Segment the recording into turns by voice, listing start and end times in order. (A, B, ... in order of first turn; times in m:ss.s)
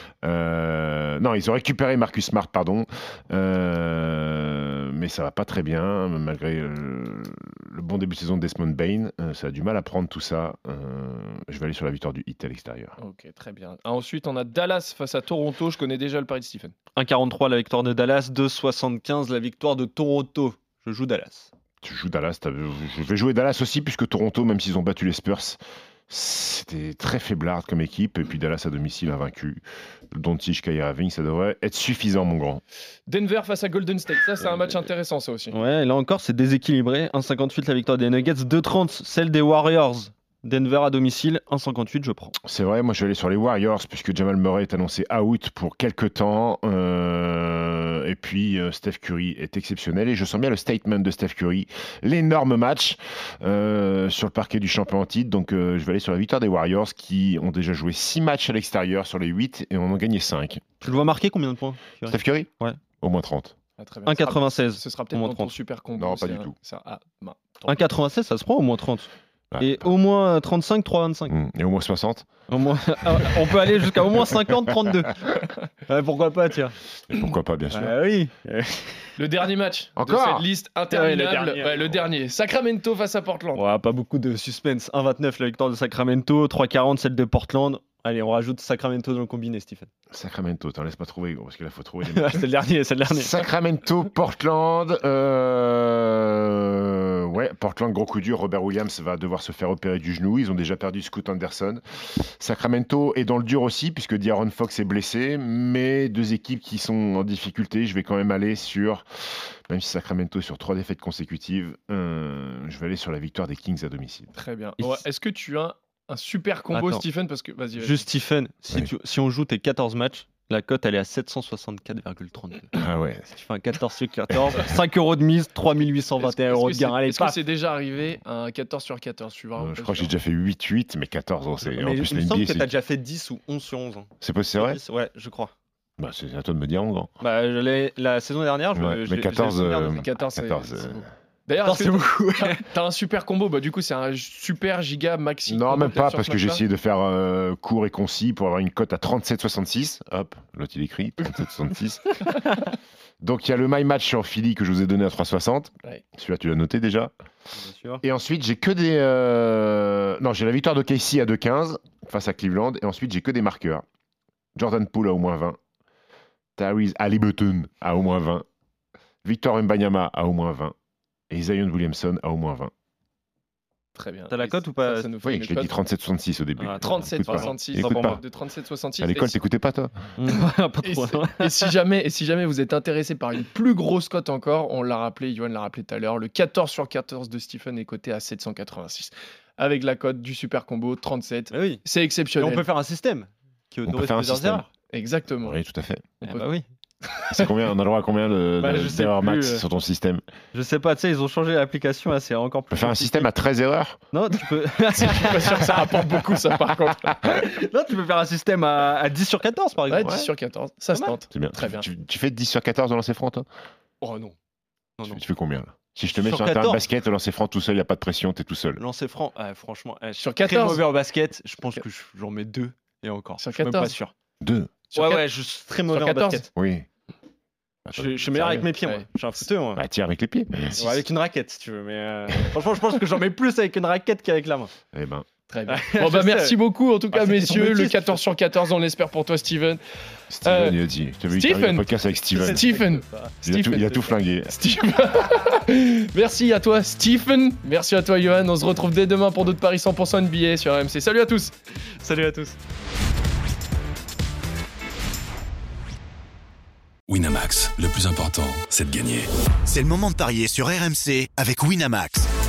0:00.2-0:13.0 A
0:13.0-0:16.7 B
0:17.0-0:21.5 C
0:21.8-0:32.6 A
0:33.1-0:35.6 B
0:35.5-0:42.3 C
0:42.4-1:00.6 A
1:00.8-1:02.8 C
1:02.1-1:03.6 A
1:03.8-1:07.8 B
1:04.0-1:05.5 C
1:06.0-1:06.5 A
1:07.7-1:11.4 C
1:09.5-1:09.9 A
1:11.3-1:12.3 A
1:12.5-1:16.8 C
1:17.1-1:18.0 A
1:17.7-1:19.1 C
1:19.2-1:23.6 B
1:20.0-1:20.4 A
1:20.9-1:21.9 C
1:23.5-1:29.9 C
1:30.1-1:32.5 A
1:32.0-1:33.5 C
1:33.0-1:49.0 A
1:49.7-1:54.3 A
1:54.3-1:58.0 B
1:56.7-1:57.0 C
1:57.8-2:07.4 C
2:02.7-2:03.3 A
2:06.2-2:10.1 B
2:09.6-2:12.7 A
2:11.6-2:15.5 C
2:14.2-2:14.8 A
2:16.0-2:17.1 A
2:17.2-2:20.1 C
2:18.8-2:21.1 A
2:19.9-2:26.6 B
2:21.6-2:22.6 C
2:25.5-2:32.3 A
2:33.2-2:37.1 A
2:37.6-2:38.0 C
2:38.0-2:43.8 A
2:44.6-2:45.6 A
2:46.6-2:48.4 A
2:49.2-2:50.7 A
2:51.3-2:52.7 A
2:54.0-2:55.7 B
2:54.3-2:55.1 C
2:55.2-2:58.2 A
2:56.6-2:58.2 C
2:56.8-2:59.4 B
2:59.0-2:59.9 A
3:00.2-3:01.7 C
3:00.8-3:12.6 B
3:11.5-3:11.8 C
3:12.4-3:14.7 C
3:13.9-3:14.6 A
3:14.9-3:15.6 B
3:15.4-3:16.1 A
3:16.2-3:16.6 C
3:17.3-3:20.2 A
3:18.6-3:19.6 C
3:20.5-3:23.3 C
3:22.7-3:24.0 A
3:24.1-3:25.8 C
3:25.0-3:27.2 B
3:27.3-3:30.3 C
3:29.9-3:31.9 B
3:31.3-3:33.5 A
3:34.0-3:34.4 B
3:35.0-3:38.8 A
3:36.1-3:36.8 C
3:38.8-3:44.1 C
3:40.2-3:40.8 B
3:43.4-3:44.0 B
3:44.4-3:44.7 A
3:44.9-3:45.2 B
3:45.0-3:46.5 C
3:45.9-3:46.4 B
3:46.6-3:46.9 A
3:47.9-3:48.6 A
3:48.0-3:49.8 C
3:48.4-3:49.1 B
3:49.8-3:50.8 A
3:50.7-3:51.0 B
3:50.8-3:54.7 C
3:54.9-3:55.3 A
3:55.5-3:59.8 B
3:55.7-3:56.6 C
3:57.1-3:58.2 C
4:00.3-4:02.7 A
4:00.5-4:00.8 B
4:01.3-4:03.9 B
4:02.4-4:04.1 C
4:03.4-4:04.5 A
4:04.5-4:11.5 B
4:12.0-4:12.6 C
4:17.1-4:19.3 D
4:19.6-4:22.3 E